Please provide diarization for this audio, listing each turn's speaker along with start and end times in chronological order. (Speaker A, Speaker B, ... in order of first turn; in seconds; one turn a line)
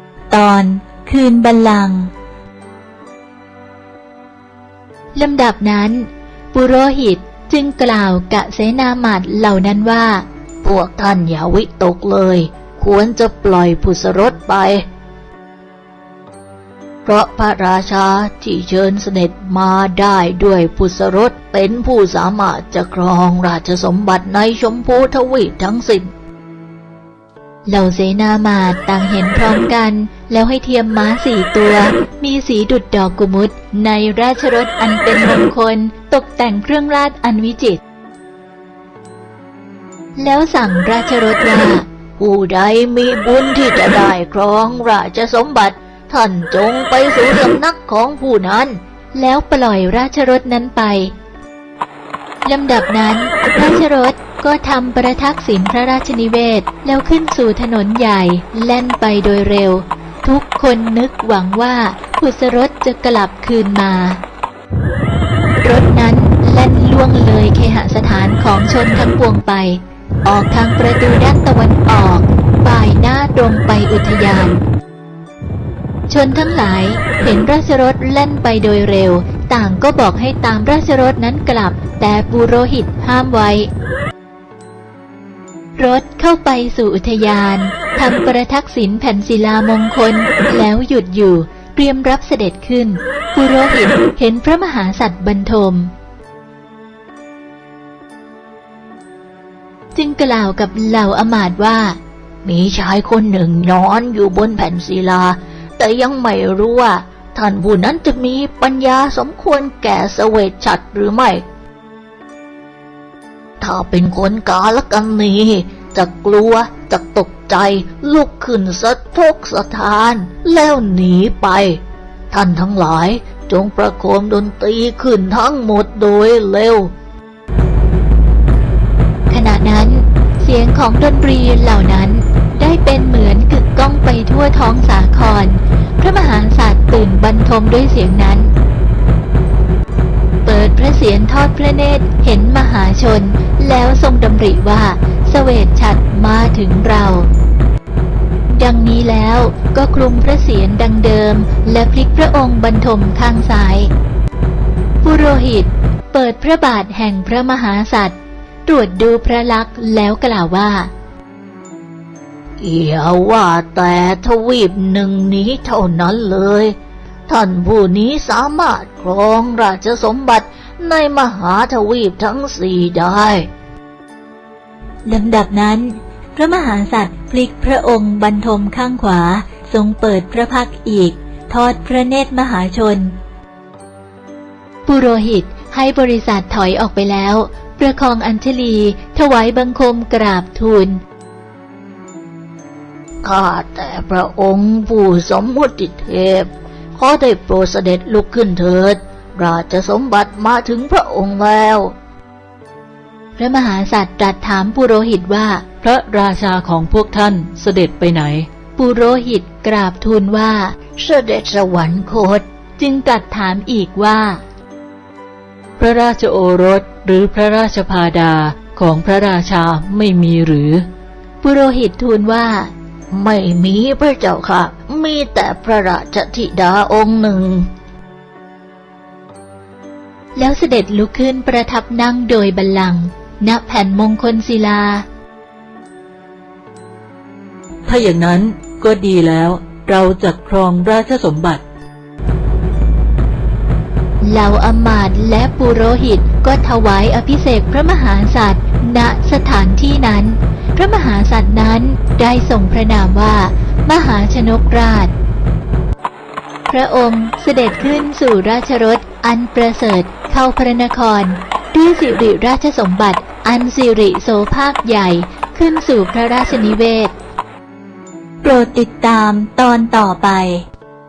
Speaker A: 0.3-2.1
Speaker A: 5.2-10.2
Speaker B: 10.6-14.8
Speaker B: 17.1-26.1
Speaker A: 27.7-37.8
Speaker A: 40.2-41.9
Speaker B: 42.2-48.8
Speaker A: 49.1-51.1
Speaker A: 52.5-64.2
Speaker A: 65.6-74.6
Speaker A: 76.1-83.7
Speaker A: 85.8-95.9
Speaker A: 100.0-102.0
Speaker B: 102.4-111.4
Speaker B: 113.6-126.9
Speaker A: 129.3-138.5
Speaker A: 140.4-147.3
Speaker A: 148.5-153.9
Speaker A: 155.0-160.9
Speaker B: 162.6-166.8
Speaker B: 167.3-173.5
Speaker A: 175.1-183.2
Speaker A: 184.9-191.0
Speaker B: 193.2-201.9
Speaker A: 203.4-205.8
Speaker C: 205.8-208.5
Speaker A: 208.8-210.8
Speaker B: 211.0-212.4
Speaker A: 212.8-214.4
Speaker C: 215.8-220.8
Speaker A: 221.4-222.7
Speaker B: 223.1-227.7
Speaker A: 230.4-235.1
Speaker C: 237.9-241.6
Speaker A: 244.2-255.1
Speaker A: 256.7-267.1
Speaker A: 268.4-270.7